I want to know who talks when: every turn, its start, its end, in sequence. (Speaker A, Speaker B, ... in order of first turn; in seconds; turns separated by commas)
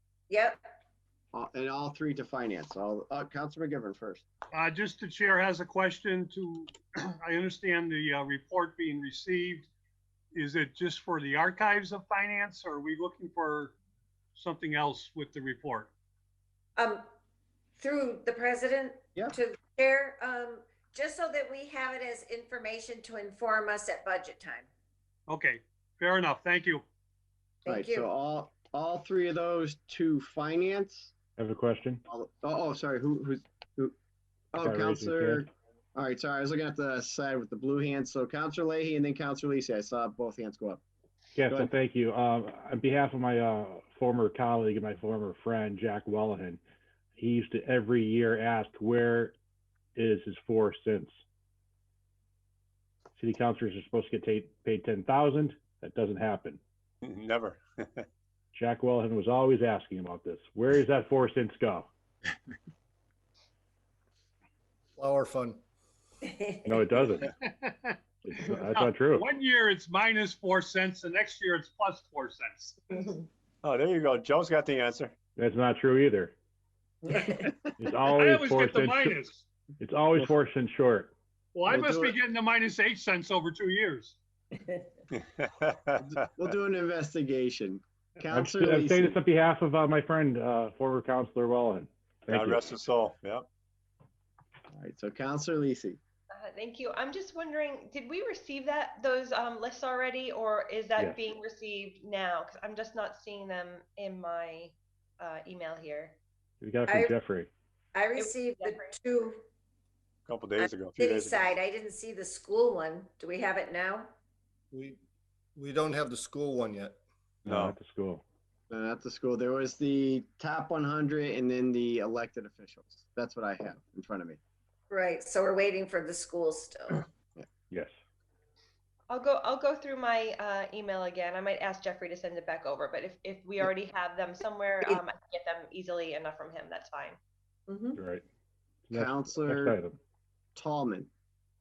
Speaker A: 0.3-0.6, Speaker B: 1.3-4.2, Speaker C: 4.5-9.7, Speaker C: 10.3-13.7, Speaker C: 14.3-15.9, Speaker A: 16.8-17.1, Speaker A: 17.8-24.6, Speaker C: 25.3-26.8, Speaker A: 27.6-28.1, Speaker B: 27.7-31.1, Speaker D: 31.4-32.0, Speaker B: 32.1-33.9, Speaker B: 34.5-40.8, Speaker D: 34.6-35.5, Speaker D: 41.4-46.6, Speaker D: 47.2-49.3, Speaker D: 50.0-51.1, Speaker D: 53.1-56.6, Speaker E: 57.0-58.1, Speaker D: 58.5-61.9, Speaker F: 65.0-65.6, Speaker D: 66.6-67.3, Speaker C: 67.4-73.1, Speaker D: 68.3-69.2, Speaker E: 73.6-75.1, Speaker D: 75.4-76.3, Speaker C: 77.1-77.5, Speaker D: 77.8-79.2, Speaker C: 78.1-79.4, Speaker D: 79.8-81.1, Speaker C: 81.5-84.2, Speaker B: 81.7-82.1, Speaker E: 85.1-86.2, Speaker B: 86.0-89.2, Speaker D: 88.3-92.6, Speaker E: 92.3-93.5, Speaker B: 94.7-96.0, Speaker G: 96.3-106.2, Speaker D: 106.6-107.5, Speaker A: 106.9-107.1, Speaker A: 107.9-109.4, Speaker G: 108.2-109.0, Speaker E: 110.2-111.6, Speaker A: 110.6-114.1, Speaker F: 114.7-115.0, Speaker F: 115.5-117.0, Speaker D: 117.5-118.2, Speaker E: 117.5-117.8, Speaker B: 118.7-124.4, Speaker A: 124.9-127.0, Speaker G: 129.1-137.2, Speaker A: 137.7-138.0, Speaker D: 137.9-138.2, Speaker D: 138.9-140.0, Speaker B: 138.9-139.8, Speaker B: 140.5-141.1